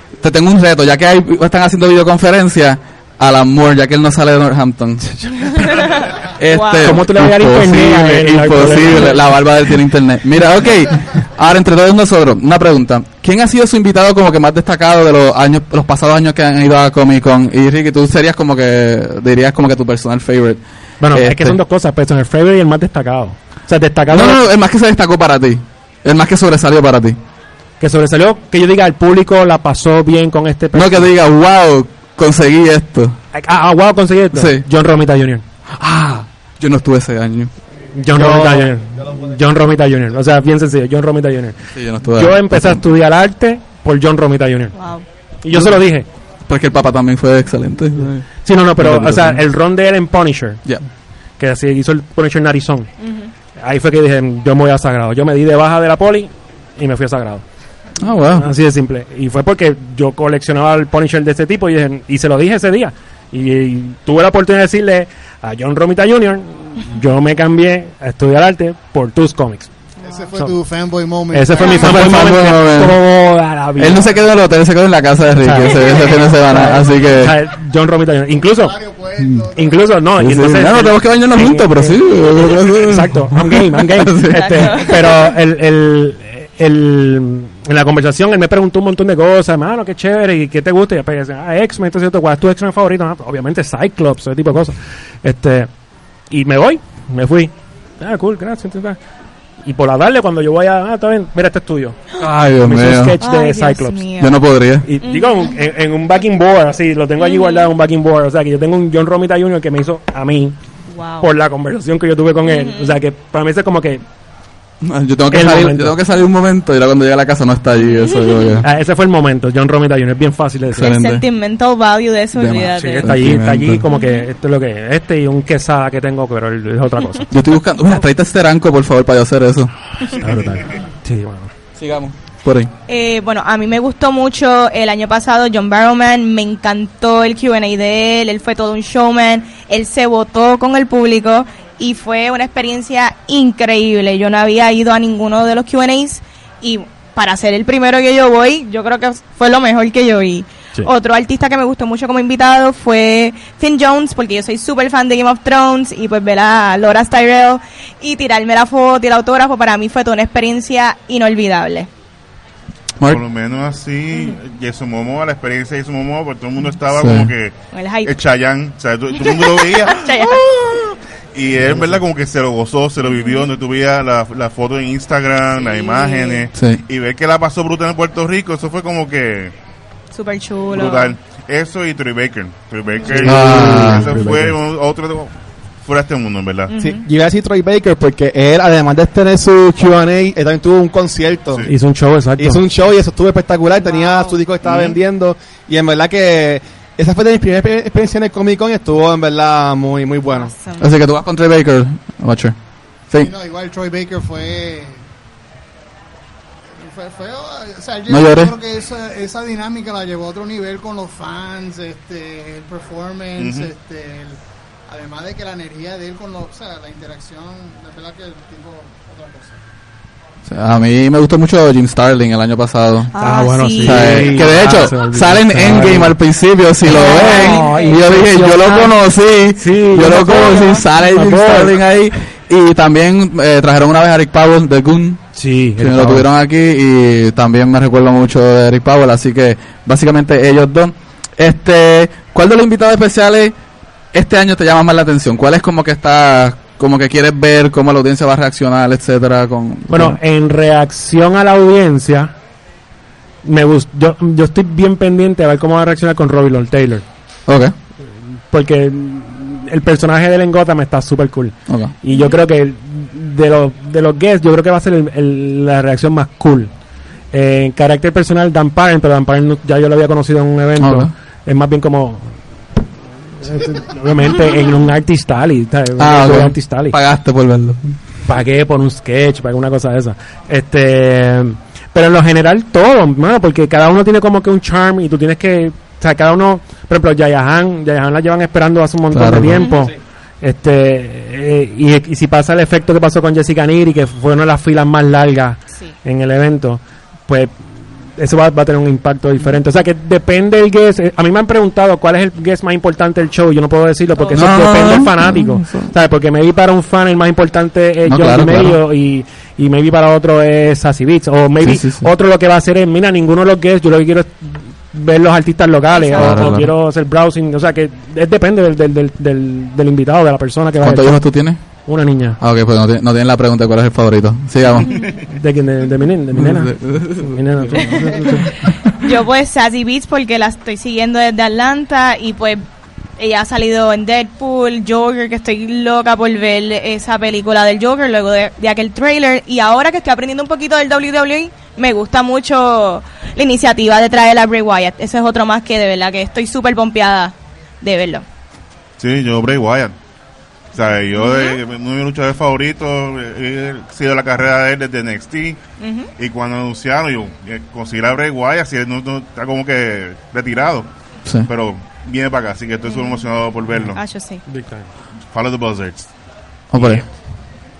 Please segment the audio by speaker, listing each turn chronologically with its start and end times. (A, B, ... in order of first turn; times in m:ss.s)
0:00.2-0:05.0 A
0:05.1-0:05.8 B
0:05.5-0:07.0 C
0:06.3-0:20.6 A
0:06.8-0:09.4 B
0:21.0-0:24.4 B
0:21.1-0:21.6 A
0:24.1-0:27.2 A
0:27.8-0:31.1 B
0:30.7-0:33.2 A
0:33.3-0:35.4 B
0:34.3-0:34.6 A
0:35.7-0:37.5 A
0:38.0-0:44.8 B
0:38.1-0:38.7 A
0:41.8-0:42.8 A
0:44.8-0:45.0 C
0:45.4-0:46.1 B
0:45.5-0:45.8 A
0:46.5-0:49.4 A
0:48.4-0:50.6 B
0:51.4-0:52.9 B
0:53.0-0:53.3 C
0:53.6-0:57.4 B
0:58.0-0:58.5 A
0:58.3-1:09.7 B
1:10.0-1:10.3 C
1:10.0-1:12.2 D
1:11.3-1:14.0 B
1:11.7-1:13.0 A
1:13.8-1:17.4 A
1:13.9-1:14.2 D
1:15.4-1:18.8 B
1:15.8-1:16.2 D
1:18.3-1:20.0 D
1:19.2-1:19.4 A
1:19.5-1:22.0 B
1:20.2-1:24.8 A
1:22.6-1:35.7 B
1:24.3-1:25.3 C
1:36.3-1:39.0 B
1:39.6-1:42.0 B
1:42.2-1:43.2 A
1:42.6-1:44.0 B
1:43.2-1:44.4 C
1:44.2-1:44.9 A
1:44.8-1:50.6 B
1:45.0-1:45.5 C
1:47.2-1:47.7 C
1:50.9-1:51.3 C
1:51.2-1:54.0 B
1:52.4-1:53.0 C
1:54.8-1:58.7 A
1:55.3-1:56.0 B
1:57.8-1:58.5 C
1:58.6-2:00.9 B
2:00.7-2:01.2 A
2:00.8-2:03.2 C
2:02.3-2:03.8 A
2:02.8-2:07.3 B
2:03.9-2:04.3 C
2:07.3-2:09.7 A
2:10.0-2:11.5 B
2:11.8-2:12.7 A
2:12.9-2:41.9 C
2:43.0-2:50.4 E
2:46.9-2:47.3 A
2:47.7-2:48.1 C
2:49.1-2:50.9 C
2:51.3-2:59.5 E
2:55.6-2:56.5 C
2:56.6-2:56.8 A
3:00.1-3:01.2 C
3:00.7-3:06.7 E
3:03.1-3:04.5 B
3:03.3-3:04.3 A
3:06.7-3:07.0 C
3:06.8-3:11.7 F
3:11.7-3:12.6 B
3:12.4-3:20.5 F
3:13.8-3:14.4 C
3:14.6-3:15.0 E
3:20.3-3:20.9 C
3:20.8-3:22.6 A
3:23.2-3:25.0 D
3:26.8-3:39.6 D
3:28.1-3:28.5 A
3:33.4-3:33.7 E
3:40.4-3:43.1 A
3:43.1-3:44.5 C
3:43.2-3:46.2 B
3:43.8-3:55.2 A
3:46.8-3:48.9 C
3:46.9-3:48.8 B
3:49.6-3:51.8 B
3:50.0-3:50.9 C
3:55.4-3:56.3 B
3:55.8-4:03.6 A
4:04.1-4:10.2 A
4:09.9-4:12.3 B
4:13.4-4:17.0 B
4:17.5-4:17.7 A
4:18.5-4:26.7 B
4:21.7-4:21.9 A
4:22.1-4:22.4 C
4:27.3-4:32.3 B
4:30.8-4:31.1 A
4:33.4-4:37.0 B
4:36.0-4:38.0 A
4:38.3-4:57.6 B
4:49.1-4:49.7 A
4:58.2-5:21.2 B
5:04.2-5:04.9 C
5:04.4-5:05.9 A
5:08.1-5:08.8 A
5:11.6-5:12.1 A
5:15.9-5:16.5 C
5:16.2-5:16.7 A
5:20.8-5:21.6 A
5:21.9-5:22.4 B
5:22.4-5:24.9 A
5:24.8-5:25.3 E
5:25.3-5:28.5 B
5:26.3-5:28.2 A
5:28.6-5:32.6 C
5:33.2-5:48.2 C
5:49.0-5:50.0 E
5:50.7-5:55.6 E
5:51.1-5:51.6 C
5:55.8-5:56.1 C
5:56.2-6:00.9 E
6:01.4-6:04.0 E
6:02.9-6:03.2 C
6:03.9-6:04.4 C
6:04.5-6:04.9 B
6:05.3-6:06.1 E
6:06.7-6:07.0 A
6:06.8-6:07.0 E